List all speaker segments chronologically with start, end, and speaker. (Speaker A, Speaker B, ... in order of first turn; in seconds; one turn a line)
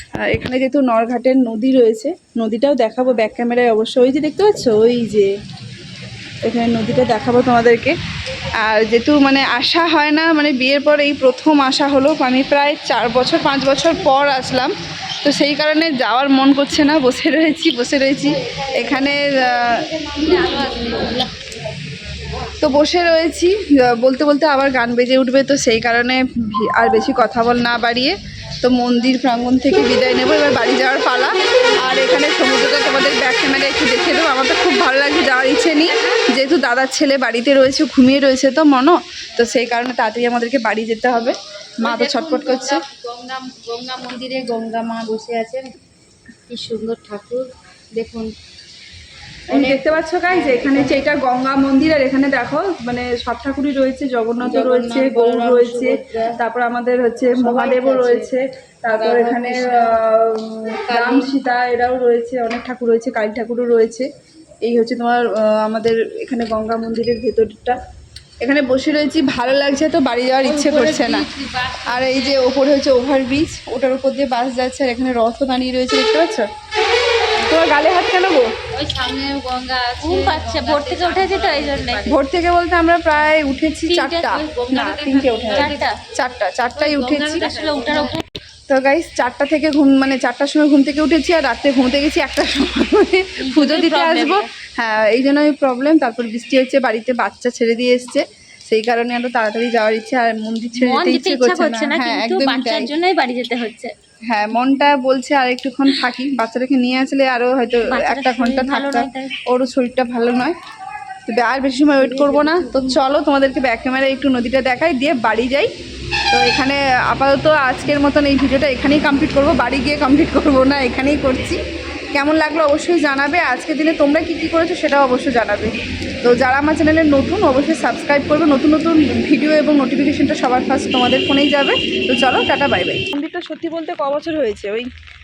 Speaker A: 0.2-5.3
Speaker A: 6.4-8.0
Speaker A: 8.6-19.9
Speaker B: 20.1-21.3
Speaker A: 22.6-42.8
Speaker B: 35.9-36.2
Speaker B: 41.9-45.8
Speaker B: 46.5-47.5
Speaker B: 48.0-48.3
Speaker A: 49.5-64.1
Speaker B: 49.5-51.1
Speaker B: 54.4-56.4
Speaker B: 57.3-58.3
Speaker B: 58.9-60.0
Speaker B: 60.9-61.3
Speaker A: 64.7-67.8
Speaker A: 68.4-71.3
Speaker B: 70.4-72.6
Speaker A: 71.8-76.5
Speaker A: 77.4-78.5
Speaker B: 78.7-82.2
Speaker C: 80.0-82.1
Speaker A: 82.1-87.5
Speaker C: 83.9-84.4
Speaker B: 84.3-85.9
Speaker C: 85.5-86.0
Speaker B: 86.7-88.2
Speaker C: 87.4-88.2
Speaker A: 88.7-102.9
Speaker C: 93.4-94.5
Speaker C: 100.8-103.9
Speaker A: 104.3-110.5
Speaker C: 107.9-109.3
Speaker A: 111.3-115.7
Speaker C: 112.6-113.0
Speaker A: 116.3-121.6
Speaker A: 122.1-134.9